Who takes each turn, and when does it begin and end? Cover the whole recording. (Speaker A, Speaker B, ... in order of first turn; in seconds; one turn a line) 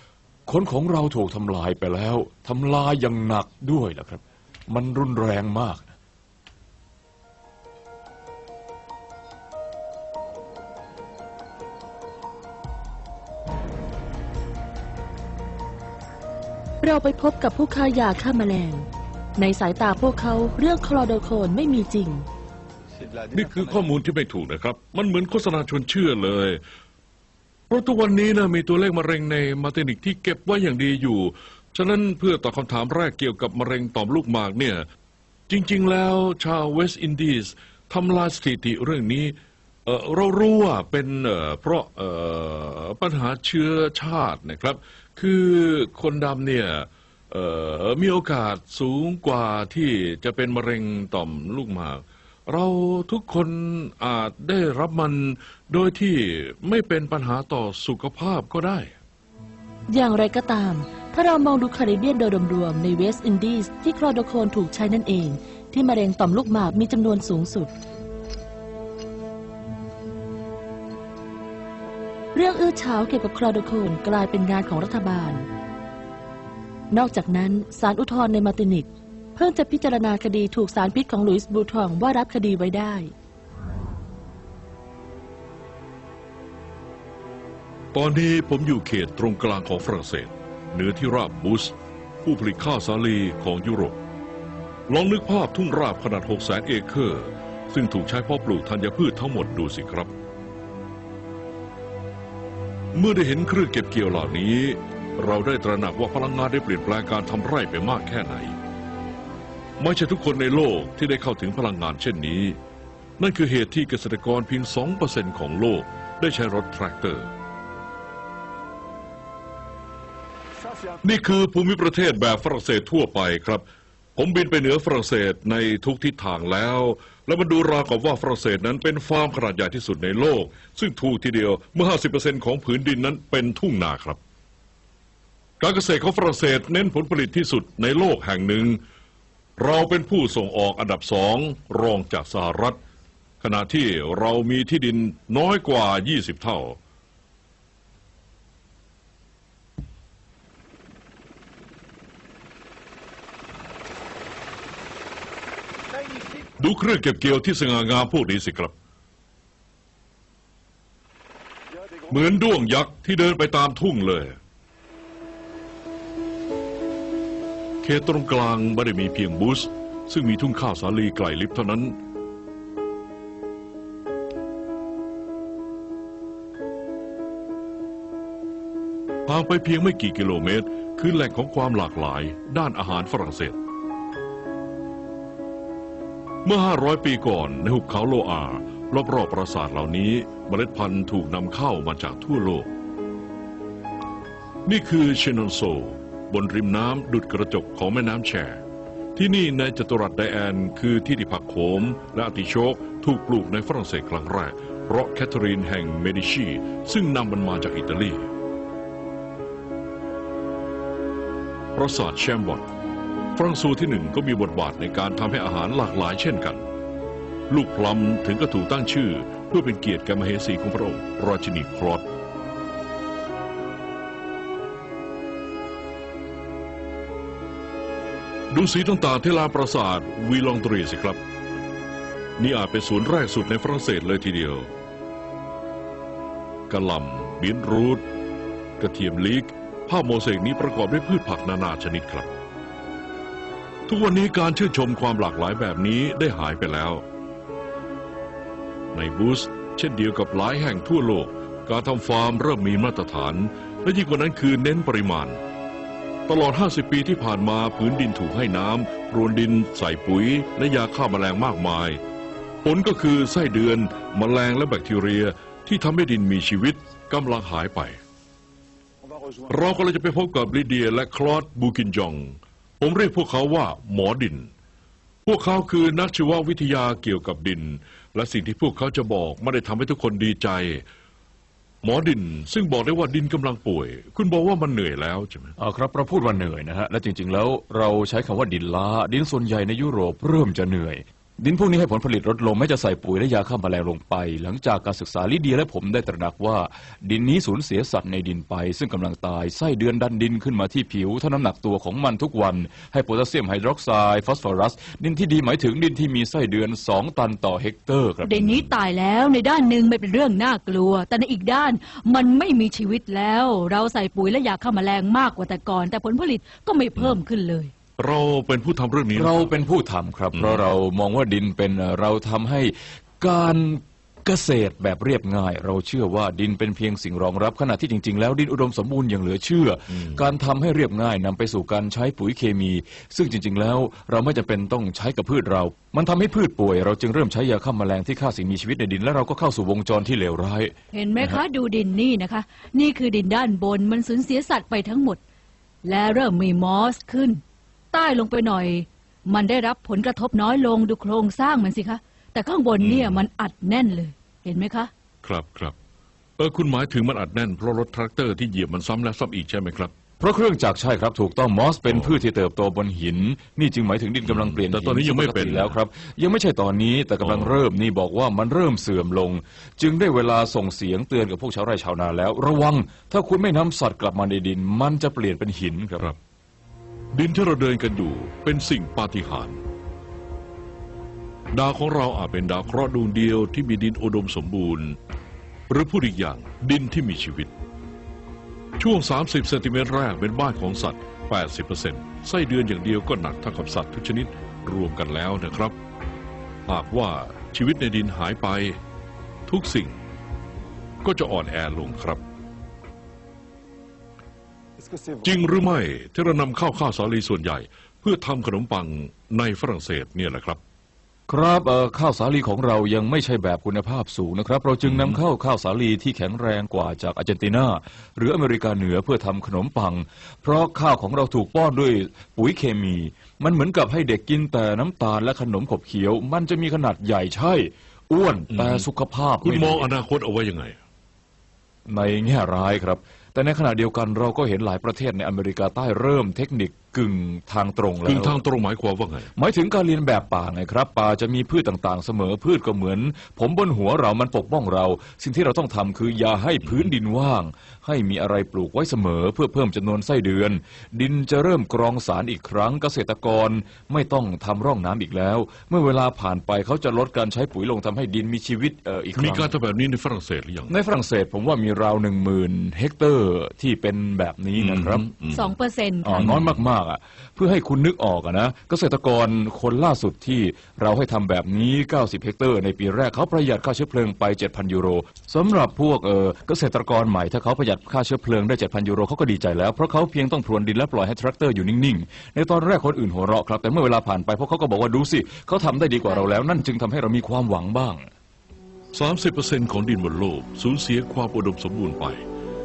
Speaker A: 0.5-5.9
Speaker B: 16.8-18.9
Speaker B: 19.4-22.3
Speaker C: 23.3-26.6
Speaker C: 27.7-34.8
Speaker C: 35.5-58.9
Speaker B: 59.9-67.7
Speaker B: 72.3-75.5
Speaker B: 76.9-83.1
Speaker C: 87.9-94.0
Speaker C: 94.9-100.1
Speaker C: 102.9-108.6
Speaker C: 109.8-112.6
Speaker C: 113.2-117.3
Speaker C: 121.0-123.6
Speaker C: 124.2-134.2
Speaker C: 135.6-138.8
Speaker C: 139.6-142.8
Speaker C: 143.4-146.8
Speaker C: 156.6-158.7
Speaker C: 162.0-164.4
Speaker C: 167.8-172.0
Speaker C: 179.3-183.6
Speaker C: 186.4-192.7
Speaker C: 194.7-198.6
Speaker C: 199.2-208.3
Speaker C: 211.7-212.7
Speaker C: 213.3-216.7
Speaker C: 217.5-222.1
Speaker C: 228.5-231.2
Speaker C: 232.4-234.7
Speaker C: 236.7-238.1
Speaker C: 238.8-242.3
Speaker C: 243.9-247.0
Speaker C: 248.9-255.4
Speaker C: 256.3-262.0
Speaker C: 262.6-268.0
Speaker C: 269.5-274.5
Speaker C: 275.2-280.8
Speaker C: 281.8-285.5
Speaker A: 285.6-308.7
Speaker D: 308.2-317.7
Speaker C: 318.0-319.5
Speaker A: 319.1-341.4
Speaker C: 320.3-320.6
Speaker C: 329.9-330.2
Speaker D: 340.9-345.2
Speaker D: 345.8-354.9
Speaker C: 352.8-353.2
Speaker C: 355.2-355.7
Speaker C: 356.4-359.9
Speaker A: 360.2-376.1
Speaker C: 361.8-362.2
Speaker C: 364.2-365.8
Speaker C: 367.2-367.6
Speaker C: 377.1-379.6
Speaker C: 381.5-385.0
Speaker C: 385.7-387.5
Speaker C: 388.8-395.8
Speaker C: 396.7-398.8
Speaker C: 399.5-400.0
Speaker C: 401.0-402.2
Speaker C: 405.2-410.6
Speaker A: 411.3-429.9
Speaker C: 414.8-415.2
Speaker C: 428.5-428.9
Speaker C: 429.4-430.8
Speaker A: 431.9-438.4
Speaker C: 438.0-439.3
Speaker A: 439.4-459.5
Speaker C: 459.1-460.7
Speaker A: 460.7-465.0
Speaker C: 464.6-465.5
Speaker D: 465.3-466.4
Speaker A: 466.0-488.1
Speaker D: 486.0-486.3
Speaker C: 488.9-492.2